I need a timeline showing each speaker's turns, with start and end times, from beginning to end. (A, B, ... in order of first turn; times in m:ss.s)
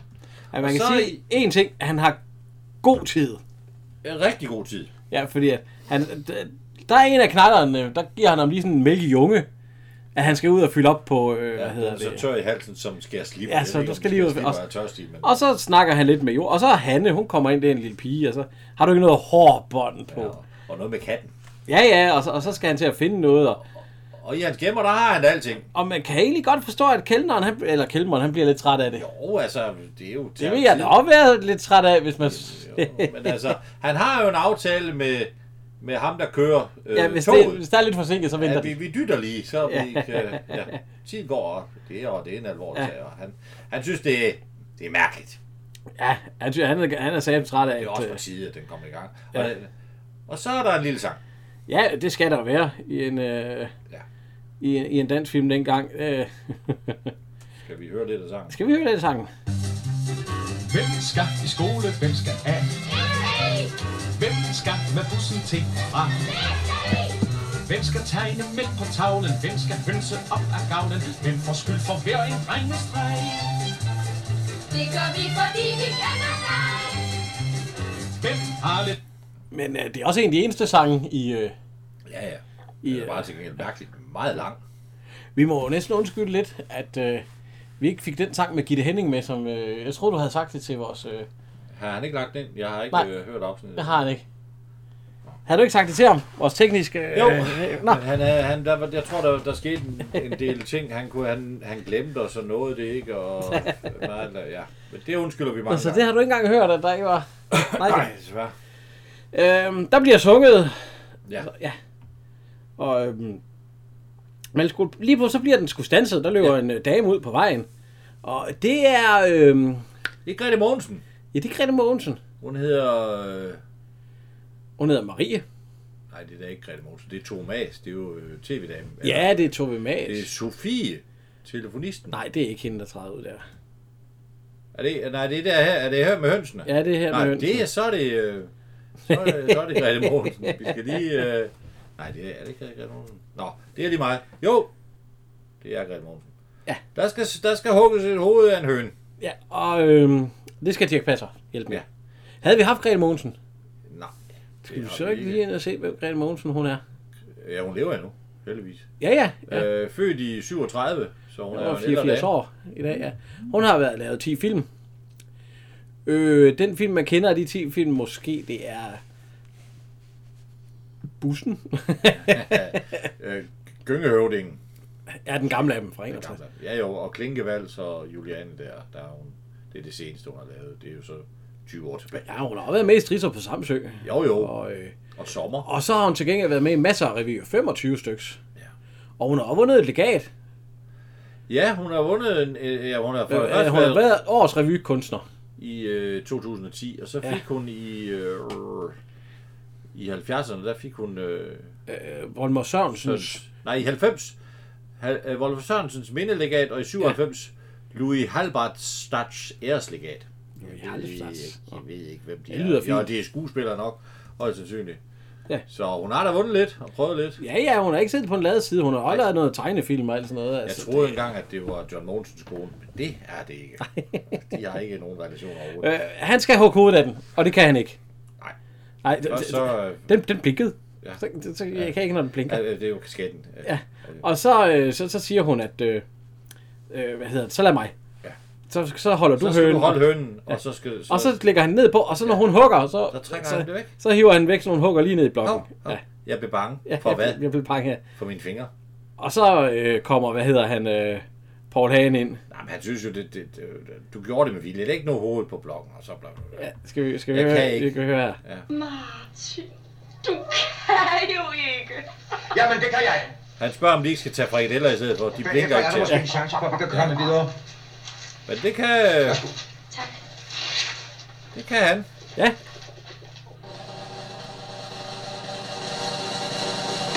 0:00.5-0:02.2 A
0:00.6-0:01.2 B
0:02.8-0:03.4 A
0:04.0-0:04.9 B
0:05.1-0:09.5 A
0:10.2-0:12.2 A
0:11.6-0:15.4 B
0:13.5-0:14.6 A
0:15.2-0:20.4 A
0:20.1-0:21.3 B
0:21.7-0:23.6 A
0:24.2-0:25.7 B
0:25.7-0:29.0 A
0:29.0-0:31.0 B
0:30.4-0:33.4 A
0:32.2-0:37.6 B
0:36.9-0:38.7 A
0:38.4-0:45.4 B
0:39.7-0:40.4 A
0:46.0-0:48.2 A
0:47.8-0:49.7 B
0:50.3-0:51.2 B
0:51.7-0:53.7 A
0:54.6-0:57.1 A
0:57.6-0:58.6 B
0:58.5-0:59.3 A
1:00.7-1:02.8 C
1:02.9-1:03.7 D
1:04.1-1:06.3 C
1:06.3-1:07.1 D
1:07.6-1:13.5 C
1:14.7-1:17.0 D
1:18.2-1:19.0 C
1:19.5-1:21.5 A
1:22.0-1:24.6 B
1:22.8-1:23.3 A
1:25.4-1:27.2 A
1:27.8-1:31.3 A
1:31.7-1:34.0 B
1:33.8-1:34.2 A
1:35.5-1:38.0 A
1:37.1-1:46.0 B
1:45.7-1:48.1 A
1:47.5-1:48.5 B
1:49.3-1:50.9 A
1:51.4-1:51.8 A
1:52.8-1:53.4 A
1:54.6-1:57.7 A
1:58.2-1:59.9 A
2:00.2-2:01.0 B
2:01.3-2:02.2 A
2:02.4-2:03.6 B
2:04.8-2:05.4 A
2:06.1-2:09.4 B
2:09.0-2:10.3 A
2:10.1-2:12.2 B
2:12.1-2:13.4 A
2:14.7-2:18.5 B
2:16.6-2:17.7 A
2:19.1-2:24.7 B
2:19.1-2:20.6 A
2:25.6-2:26.3 B
2:27.0-2:29.0 B
2:29.2-2:31.8 A
2:32.4-2:33.4 A
2:33.9-2:34.1 B
2:34.6-2:35.4 B
2:34.6-2:36.8 A
2:37.4-2:38.9 B
2:39.0-2:39.7 A
2:39.5-2:42.3 B
2:41.5-2:44.7 A
2:46.1-2:49.0 A
2:51.2-2:53.1 A
2:52.1-2:54.6 B
2:55.1-2:56.4 A
2:56.1-3:02.3 B
3:02.2-3:05.0 A
3:04.0-3:04.5 B
3:05.2-3:05.7 B
3:05.6-3:08.4 A
3:09.2-3:10.3 A
3:11.5-3:14.1 B
3:13.3-3:15.2 A
3:15.6-3:19.0 B
3:19.9-3:21.7 B
3:21.9-3:23.4 A
3:23.0-3:24.4 B
3:25.0-3:35.0 B
3:30.6-3:31.6 A
3:32.5-3:33.1 A
3:35.7-3:37.4 B
3:37.4-3:41.2 A
3:39.1-3:39.3 B
3:40.6-3:45.9 B
3:43.9-3:44.3 A
3:45.8-3:48.0 A
3:49.0-3:52.6 A
3:49.3-3:50.1 B
3:52.5-3:54.2 B
3:53.6-3:56.0 A
3:56.9-3:57.9 A
3:58.7-4:00.2 A
3:59.4-4:01.4 B
4:01.1-4:06.0 A
4:02.2-4:02.5 B
4:03.1-4:03.9 B
4:05.4-4:07.4 B
4:06.9-4:08.0 A
4:08.1-4:08.7 B
4:09.2-4:12.4 A
4:12.5-4:16.6 B
4:16.6-4:18.4 A
4:17.3-4:18.7 B
4:18.7-4:19.7 D
4:20.2-4:22.1 D
4:22.5-4:23.3 E
4:23.6-4:26.2 B
4:25.4-4:27.5 E
4:26.9-4:27.2 B
4:28.5-4:29.4 B
4:31.5-4:32.1 B